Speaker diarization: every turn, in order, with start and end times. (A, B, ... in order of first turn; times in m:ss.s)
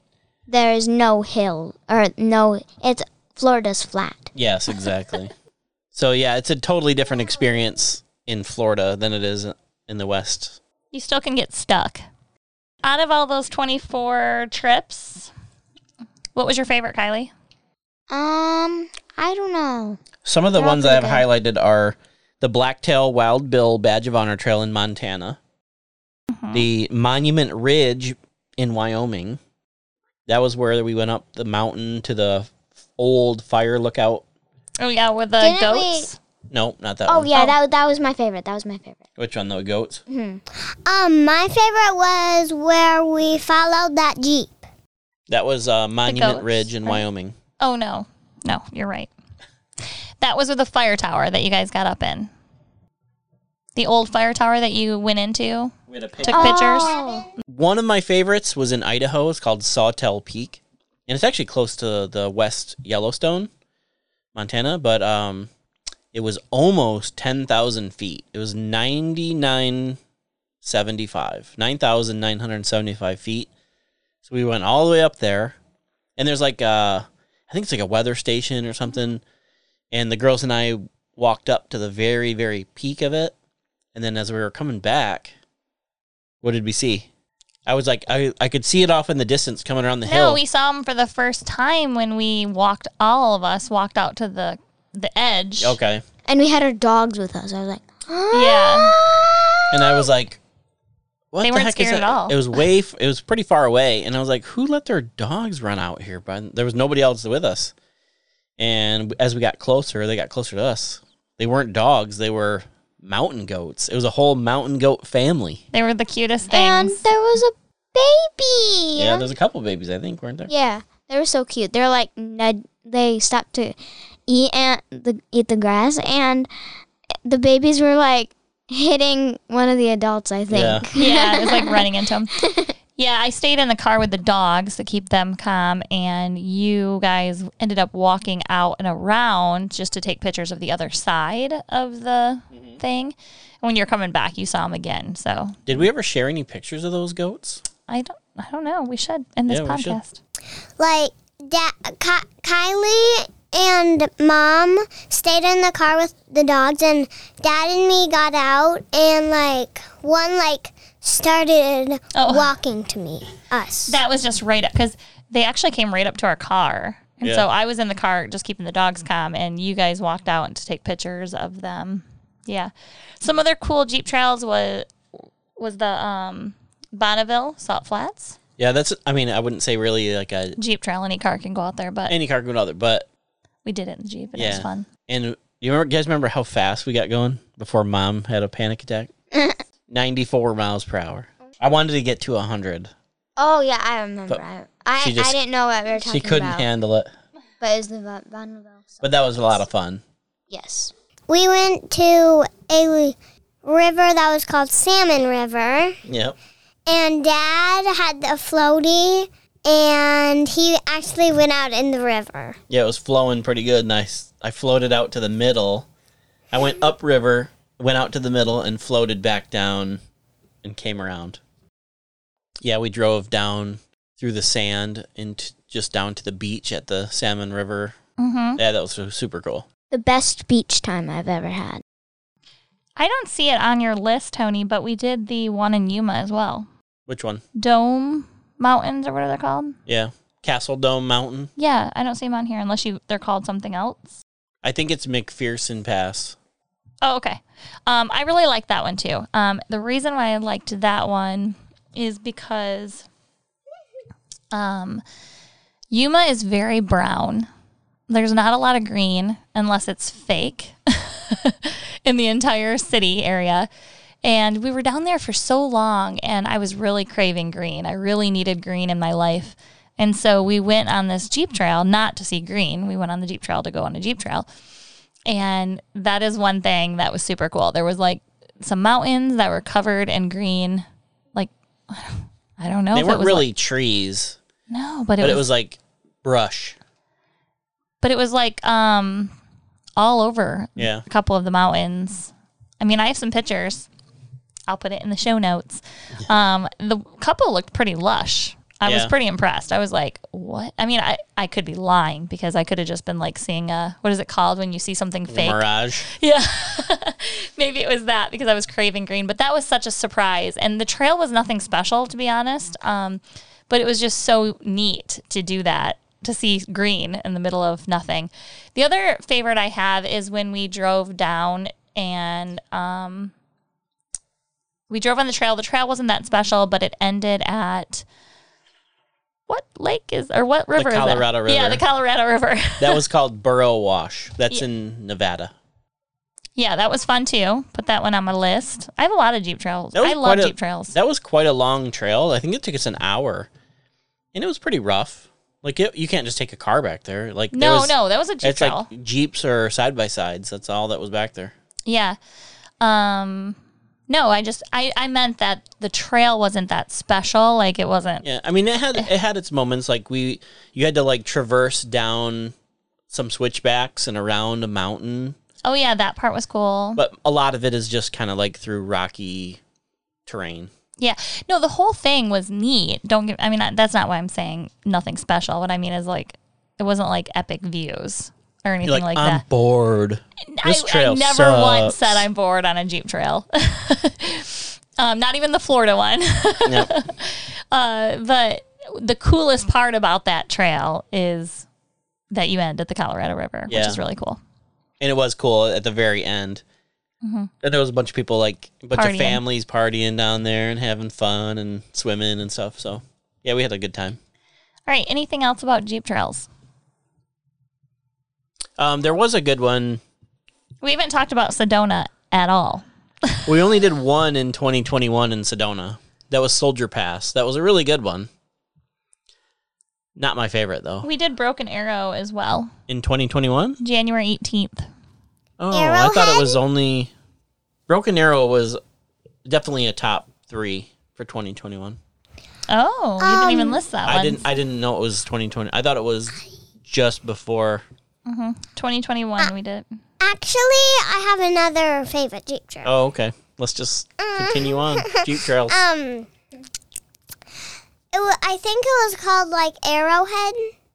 0:00.5-0:04.3 A
0:04.3-0:05.3 B
0:05.9-0:10.6 B
0:10.9-0:12.0 C
0:12.8-0:15.3 C
0:16.3-0:17.3 C
0:18.1-0:20.0 A
0:20.2-0:25.4 B
0:20.5-0:21.3 A
0:26.3-0:26.6 C
0:26.5-0:29.4 B
0:30.3-0:34.2 B
0:34.8-0:36.2 C
0:35.4-0:36.1 A
0:36.5-0:37.3 B
0:37.1-0:39.0 A
0:39.2-0:40.0 B
0:40.1-0:40.4 A
0:40.6-0:44.7 D
0:45.3-0:47.3 B
0:46.0-0:47.0 C
0:47.6-0:49.1 C
0:50.2-0:52.3 C
0:53.8-0:55.7 C
0:55.9-0:56.6 B
0:56.2-0:56.9 C
0:56.3-0:57.3 A
0:56.9-0:57.2 D
0:57.5-1:03.5 B
1:04.3-1:05.5 B
1:06.1-1:10.0 B
1:10.6-1:13.5 B
1:14.2-1:15.6 B
1:16.2-1:19.2 B
1:19.9-1:23.3 B
1:23.9-1:25.3 B
1:26.4-1:27.1 B
1:27.6-1:30.4 B
1:30.0-1:35.8 C
1:35.6-1:36.0 B
1:36.3-1:40.0 A
1:38.3-1:38.9 C
1:39.7-1:40.4 B
1:41.3-1:47.7 B
1:41.4-1:42.4 C
1:48.6-1:55.6 B
1:55.7-1:57.0 C
1:56.5-1:59.3 A
1:59.0-2:00.5 B
2:00.5-2:03.8 A
2:04.3-2:06.5 A
2:07.2-2:11.8 A
2:10.5-2:10.9 B
2:10.9-2:12.4 C
2:12.4-2:12.7 A
2:13.0-2:25.8 C
2:22.5-2:22.8 B
2:25.7-2:27.6 B
2:27.9-2:30.2 C
2:29.5-2:30.0 B
2:30.8-2:44.0 D
2:42.1-2:42.5 C
2:43.9-2:54.9 C
2:55.6-2:58.4 C
2:58.6-3:00.6 B
3:00.6-3:02.1 C
3:02.1-3:03.1 B
3:03.6-3:04.9 C
3:04.4-3:09.1 B
3:09.3-3:09.6 A
3:09.9-3:12.9 B
3:13.4-3:16.7 A
3:15.0-3:15.4 B
3:16.0-3:17.1 B
3:17.6-3:19.6 A
3:19.0-3:20.0 B
3:20.5-3:20.9 A
3:21.3-3:26.0 D
3:26.0-3:26.4 B
3:26.9-3:32.6 D
3:32.7-3:35.9 B
3:36.5-3:40.0 B
3:40.6-3:41.4 B
3:42.6-3:47.9 B
3:48.2-3:48.6 C
3:48.6-3:49.7 B
3:49.9-3:51.8 A
3:53.0-3:56.7 C
3:57.1-3:57.4 B
3:57.6-3:59.8 C
3:59.9-4:01.5 B
4:01.6-4:04.2 C
4:04.6-4:06.4 B
4:07.0-4:13.1 C
4:14.5-4:15.0 C
4:15.9-4:17.5 C
4:18.1-4:23.7 C
4:24.2-4:34.5 C
4:35.2-4:40.8 C
4:41.4-4:43.4 C
4:42.9-4:44.4 B
4:44.7-4:45.4 C
4:45.2-4:46.8 B
4:48.0-4:49.3 C
4:50.0-4:53.9 C
4:50.8-4:51.0 B
4:54.7-5:23.3 C
4:58.8-4:59.1 B
5:05.3-5:06.1 B
5:24.9-5:28.0 C
5:29.5-5:33.0 C
5:30.8-5:31.8 B
5:32.8-5:35.5 B
5:36.6-5:41.0 C
5:39.9-5:43.5 B
5:44.3-5:51.5 B
5:47.5-5:48.9 C
5:51.8-5:52.2 C
5:52.8-5:53.6 C
5:54.1-5:58.2 C
5:58.2-6:02.5 B
6:03.1-6:05.4 B
6:05.6-6:07.0 C
6:07.0-6:09.6 B
6:10.2-6:10.7 B
6:11.0-6:19.4 C
6:18.8-6:22.2 B
6:20.5-6:31.7 C
6:32.3-6:34.4 C
6:33.7-6:34.0 B
6:35.0-6:36.6 B
6:37.2-6:37.5 C
6:37.6-6:44.2 B
6:38.9-6:39.4 C
6:44.9-6:46.5 C
6:48.8-6:50.0 B
6:50.8-6:53.5 C
6:53.4-6:58.3 B
7:00.2-7:01.1 B
7:01.0-7:02.7 C
7:02.9-7:03.8 B
7:03.8-7:04.8 C
7:05.6-7:07.1 B
7:05.7-7:06.6 D
7:07.9-7:08.8 B
7:09.4-7:12.0 B
7:12.7-7:14.4 C
7:13.2-7:13.8 D
7:14.0-7:17.8 B
7:18.2-7:19.9 C
7:20.2-7:22.9 D
7:22.8-7:25.8 B
7:24.2-7:26.3 D
7:28.1-7:30.7 D